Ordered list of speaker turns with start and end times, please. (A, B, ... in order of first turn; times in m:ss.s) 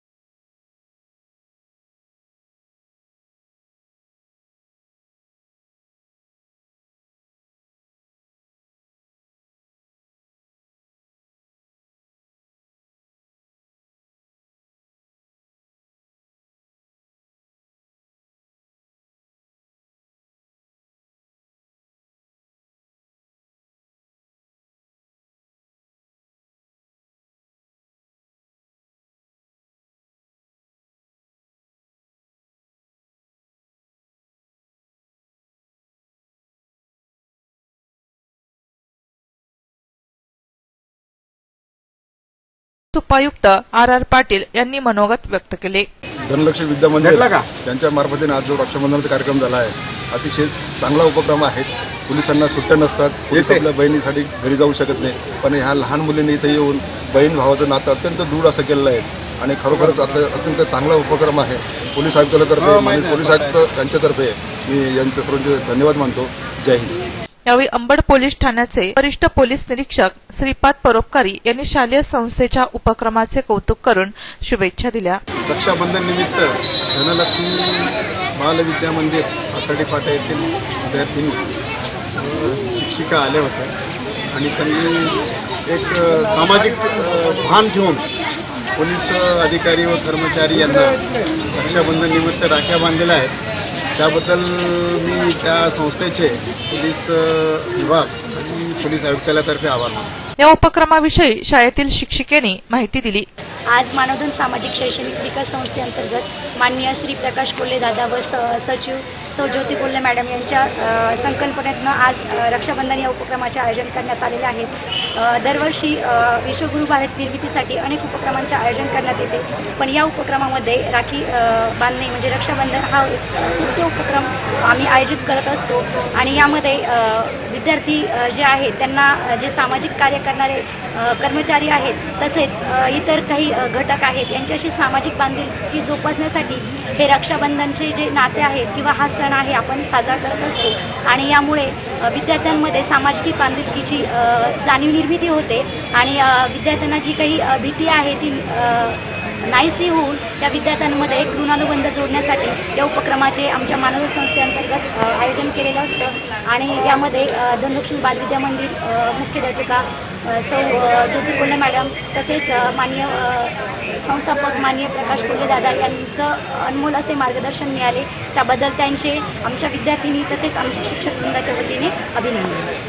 0:42.9-0:45.9 A
0:46.3-1:07.0 B
0:47.0-0:47.5 C
0:53.3-0:53.7 C
0:59.8-1:00.2 C
1:02.6-1:03.6 C
1:07.5-1:15.2 A
1:15.5-1:21.4 C
1:22.2-1:23.7 C
1:24.3-1:28.0 C
1:28.8-1:31.0 C
1:31.5-1:33.3 C
1:34.0-1:40.1 C
1:40.4-1:43.3 A
1:43.7-2:52.7 D